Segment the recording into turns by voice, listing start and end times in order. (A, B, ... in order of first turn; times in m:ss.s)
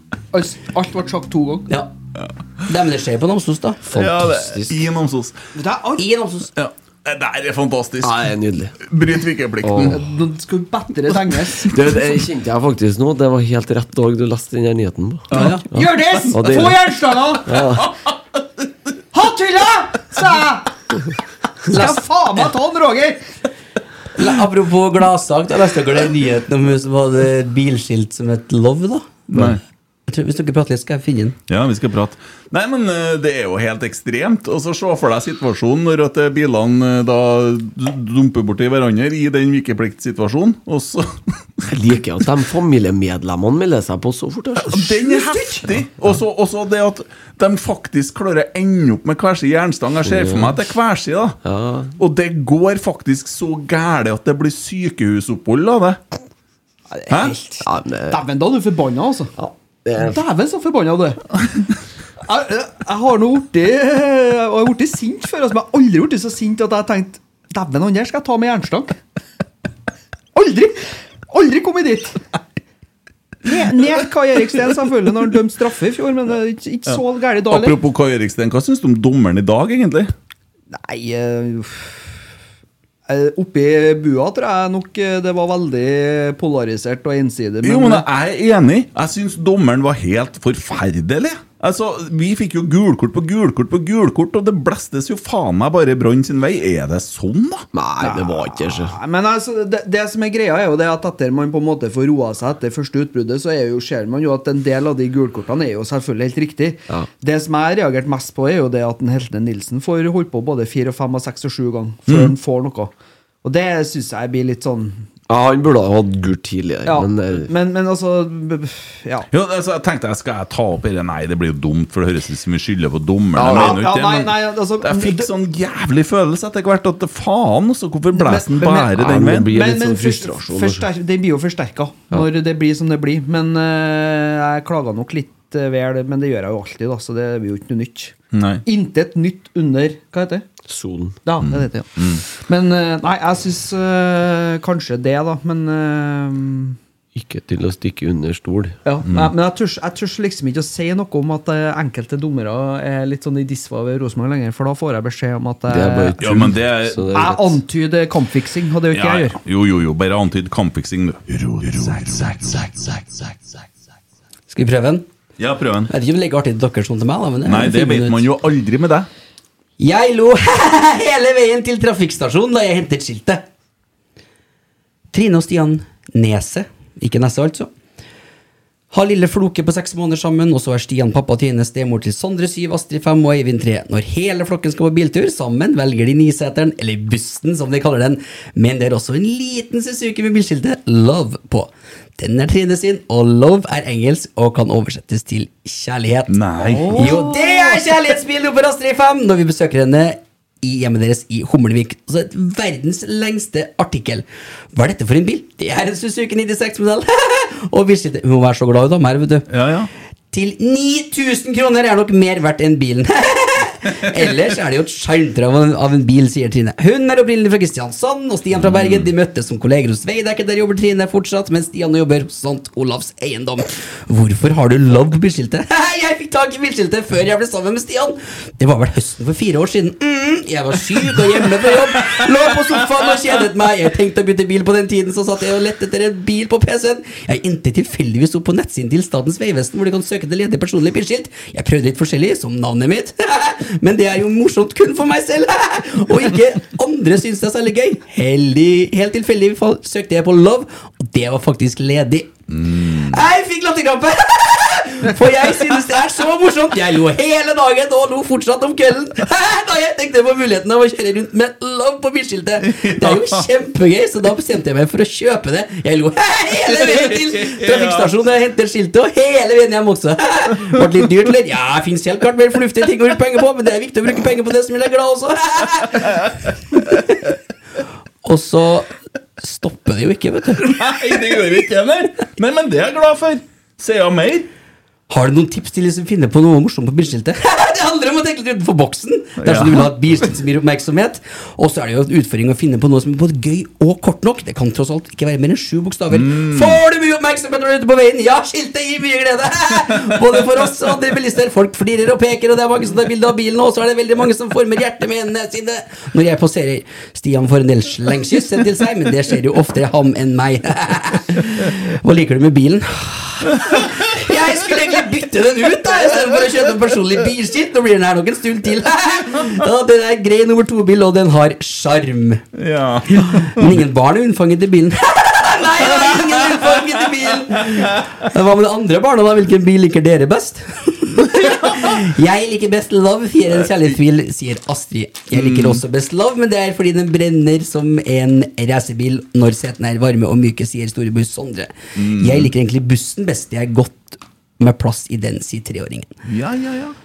0:00.3-0:01.7 A
0:02.7-0:03.8 B
0:03.9-0:04.8 C
0:03.9-0:05.4 D
0:05.6-0:06.1 A
0:06.0-0:06.5 B
0:06.5-0:10.0 D
0:08.0-0:08.8 C
0:09.6-0:10.0 C
0:09.9-0:11.8 A
0:11.7-0:16.9 C
0:15.3-0:15.6 B
0:15.3-0:17.6 A
0:17.4-0:17.9 C
0:19.1-0:20.7 A
0:21.7-0:23.2 A
0:24.1-0:29.6 B
0:29.3-0:29.6 D
0:30.1-0:31.4 B
0:31.5-0:41.8 D
0:41.7-0:44.9 C
0:44.6-0:51.4 D
0:50.0-0:50.6 C
0:51.4-0:52.0 C
0:52.0-0:56.0 D
0:56.9-0:59.3 A
0:57.1-0:57.3 D
0:57.6-0:58.2 C
0:59.4-1:00.2 C
1:00.0-1:01.2 A
1:02.2-1:09.0 A
1:10.3-1:12.2 A
1:13.4-1:17.8 A
1:16.8-1:20.1 D
1:20.7-1:22.2 A
1:23.1-1:28.1 A
1:27.6-1:37.7 D
1:37.7-1:39.0 C
1:38.0-1:55.1 A
1:52.1-1:52.3 D
1:55.3-1:57.5 C
1:56.8-1:59.3 A
1:59.3-2:09.5 D
2:03.3-2:03.9 C
2:03.5-2:05.3 A
2:08.1-2:18.1 A
2:08.9-2:10.9 C
2:18.3-2:18.6 D
2:18.7-2:20.4 A
2:20.7-2:21.2 C
2:21.2-2:26.8 A
2:21.4-2:22.2 D
2:27.1-2:28.8 C
2:28.8-2:36.3 A
2:29.0-2:29.3 D
2:35.7-2:37.6 C
2:36.2-2:37.0 D
2:37.1-2:39.4 A
2:38.9-2:43.1 D
2:44.5-2:45.0 B
2:45.4-2:45.9 D
2:45.9-2:48.2 B
2:47.4-2:49.1 D
2:49.8-2:53.4 B
2:55.1-2:57.7 B
2:58.9-3:16.3 B
3:16.3-3:17.0 D
3:16.6-3:18.1 A
3:16.9-3:29.5 B
3:29.5-3:29.9 D
3:30.3-4:37.2 B
3:38.5-3:39.1 D
4:12.5-4:13.2 D
4:22.6-4:23.4 D
4:26.7-4:28.1 D
4:38.2-4:40.8 B
4:40.6-4:44.5 D
4:45.1-5:22.4 B
4:49.4-4:49.9 D
4:56.1-4:56.8 D
5:13.6-5:13.9 D
5:22.5-5:23.8 D
5:23.1-5:46.1 B
5:25.8-5:28.2 D
5:31.5-5:31.9 D
5:35.3-5:35.8 D
5:41.9-5:42.5 D
5:46.2-5:47.0 D